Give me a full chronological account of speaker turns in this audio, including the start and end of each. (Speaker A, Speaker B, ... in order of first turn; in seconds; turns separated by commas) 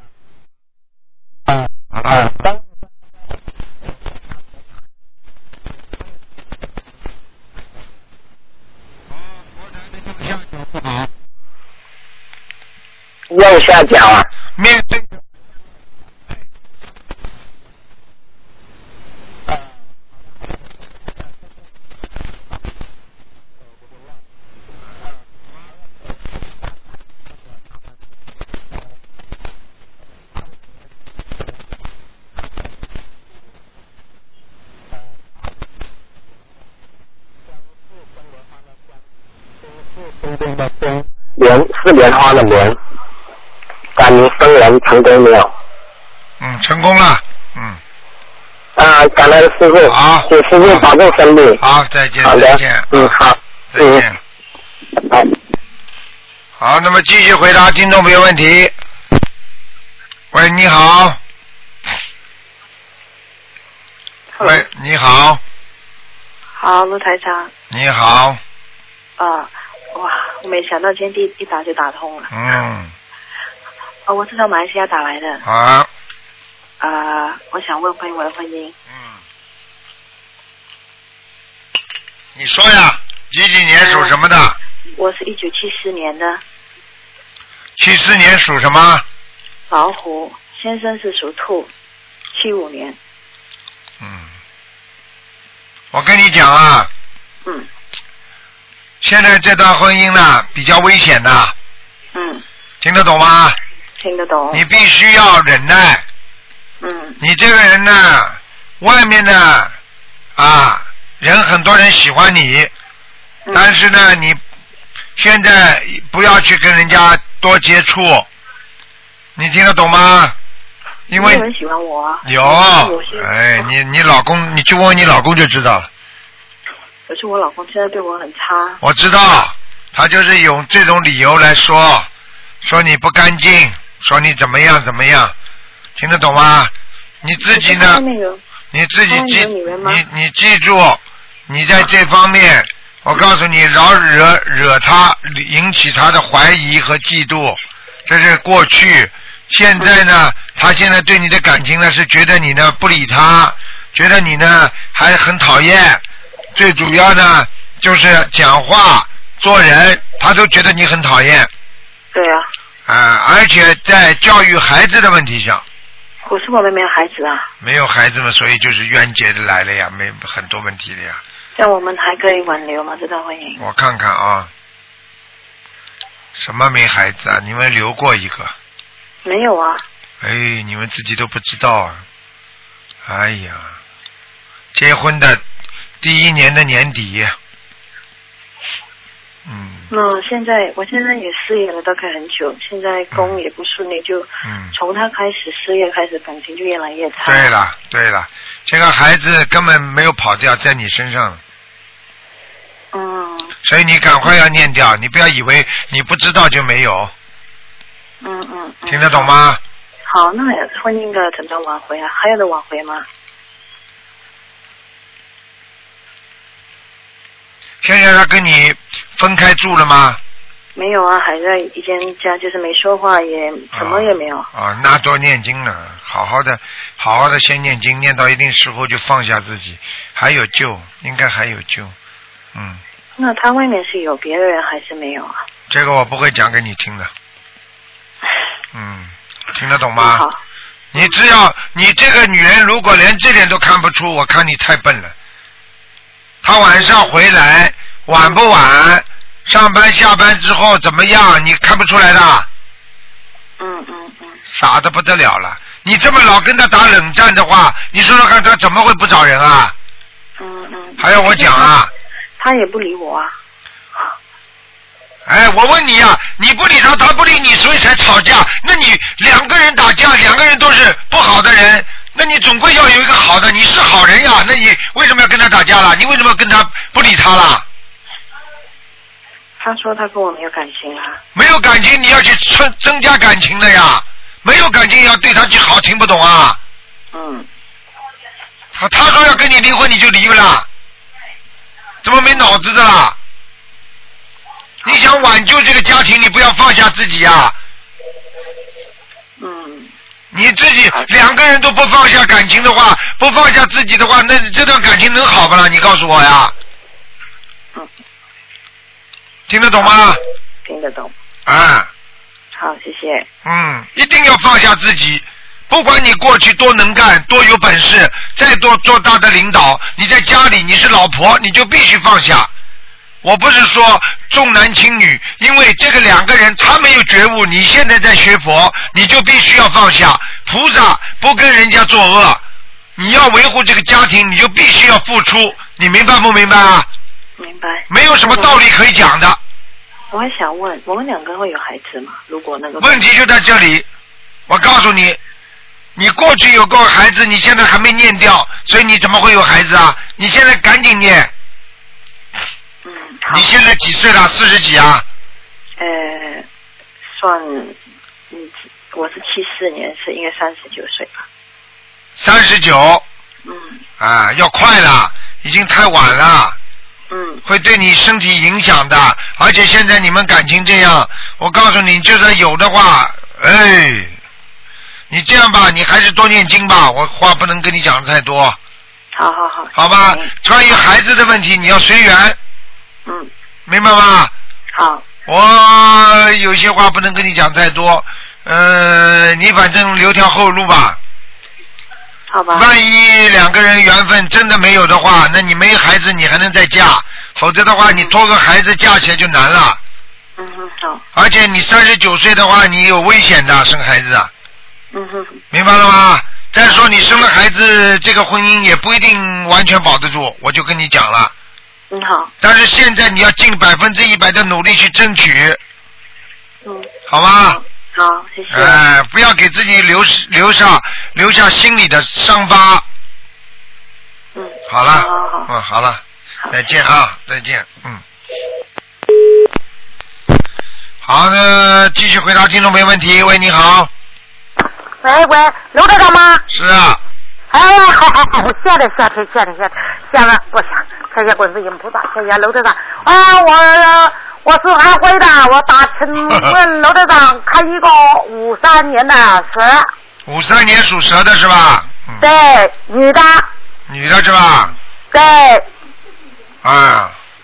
Speaker A: 13.3-14.3, Speaker B: 14.6-15.1, Speaker A: 41.4-42.8, Speaker A: 44.0-45.5, Speaker B: 46.4-47.8, Speaker A: 48.8-51.6, Speaker B: 49.8-50.9, Speaker B: 51.6-53.1, Speaker A: 52.2-54.0, Speaker B: 53.7-54.2, Speaker B: 56.6-58.7, Speaker B: 60.3-61.2, Speaker C: 64.4-64.6, Speaker B: 64.4-65.4, Speaker C: 66.6-67.5, Speaker B: 67.7-68.4, Speaker C: 69.2-72.3, Speaker B: 72.3-72.9, Speaker C: 74.0-75.4, Speaker B: 75.4-75.9, Speaker C: 76.8-78.8, Speaker B: 78.9-79.2, Speaker B: 82.3-84.6, Speaker C: 83.8-84.2, Speaker C: 85.0-86.4, Speaker B: 87.8-89.0, Speaker C: 89.7-91.7, Speaker C: 92.3-93.0, Speaker B: 94.0-94.3, Speaker B: 95.9-96.9, Speaker B: 99.0-101.5, Speaker C: 102.1-102.4, Speaker B: 102.8-103.6, Speaker C: 104.0-104.6, Speaker B: 104.5-106.0, Speaker C: 106.8-107.2, Speaker B: 107.2-109.7, Speaker B: 110.3-112.7, Speaker C: 113.4-113.7, Speaker B: 113.5-114.4, Speaker B: 115.2-118.3, Speaker B: 119.3-120.3, Speaker B: 121.1-121.5, Speaker C: 121.1-123.7, Speaker B: 122.2-125.9, Speaker C: 127.1-128.8, Speaker B: 128.8-132.1, Speaker B: 132.6-135.3, Speaker B: 136.0-138.0, Speaker C: 137.4-138.4, Speaker B: 138.7-156.0, Speaker C: 139.1-140.0, Speaker B: 156.5-161.5, Speaker C: 162.1-162.5, Speaker B: 162.9-165.6, Speaker C: 166.2-167.5, Speaker B: 167.6-171.2, Speaker C: 171.5-173.6, Speaker B: 173.6-174.5, Speaker B: 176.3-178.5, Speaker C: 179.2-179.8, Speaker B: 180.2-182.0, Speaker B: 183.0-183.8, Speaker B: 184.7-185.4, Speaker B: 186.0-187.3, Speaker B: 189.4-189.9, Speaker C: 189.9-197.5, Speaker B: 194.4-194.7, Speaker B: 197.2-201.4, Speaker C: 202.9-203.5, Speaker B: 203.6-207.1, Speaker C: 208.2-209.3, Speaker B: 208.9-209.6, Speaker C: 210.1-213.1, Speaker B: 217.8-220.2, Speaker C: 220.7-224.5, Speaker B: 223.7-231.9, Speaker B: 232.5-232.8, Speaker C: 233.2-235.4, Speaker B: 235.7-237.1, Speaker B: 238.7-240.2, Speaker C: 239.9-240.4, Speaker B: 240.9-245.1, Speaker B: 246.4-252.5, Speaker C: 246.7-247.1, Speaker C: 248.1-248.4, Speaker C: 253.6-254.4, Speaker B: 254.5-259.7, Speaker C: 260.4-261.7, Speaker B: 261.0-261.9, Speaker C: 262.4-263.3, Speaker B: 265.3-277.6, Speaker C: 279.6-281.2, Speaker B: 281.3-286.6, Speaker C: 287.1-287.5, Speaker B: 288.7-290.7, Speaker B: 292.0-293.2, Speaker B: 294.8-297.6, Speaker C: 299.4-299.9, Speaker B: 300.3-306.5, Speaker B: 309.5-310.2, Speaker C: 309.8-311.1, Speaker B: 311.4-311.9, Speaker C: 312.5-313.3, Speaker B: 313.4-322.5, Speaker B: 323.2-332.4, Speaker B: 332.9-336.9, Speaker C: 337.4-338.6, Speaker B: 337.9-339.4, Speaker C: 340.1-343.1, Speaker B: 342.8-343.9, Speaker B: 344.5-345.2, Speaker B: 345.9-351.3, Speaker C: 352.8-353.6, Speaker B: 353.3-355.0, Speaker C: 355.8-356.5, Speaker C: 357.0-357.8, Speaker C: 358.3-361.2, Speaker B: 362.2-363.0, Speaker C: 363.4-363.8, Speaker B: 364.0-366.6, Speaker C: 367.1-367.4, Speaker B: 367.4-374.2, Speaker B: 375.1-378.6, Speaker C: 379.1-380.3, Speaker B: 379.7-382.4, Speaker B: 383.7-384.3, Speaker C: 384.7-385.1, Speaker B: 385.2-391.0, Speaker C: 392.3-392.7, Speaker B: 392.5-399.8, Speaker C: 397.8-398.1, Speaker C: 400.4-401.0, Speaker B: 401.1-404.3, Speaker C: 404.9-405.4, Speaker B: 405.5-411.3, Speaker C: 411.9-412.3, Speaker B: 412.4-415.6, Speaker C: 416.6-416.9, Speaker B: 417.1-417.6, Speaker C: 417.5-418.8, Speaker B: 418.5-422.8, Speaker C: 424.3-425.5, Speaker B: 424.7-428.0, Speaker C: 426.4-426.7, Speaker B: 431.0-433.9, Speaker D: 435.0-436.4, Speaker B: 436.5-437.0, Speaker D: 437.5-449.9, Speaker B: 450.2-452.2, Speaker D: 452.2-453.5, Speaker B: 453.9-454.8, Speaker D: 455.1-455.6, Speaker B: 456.6-457.1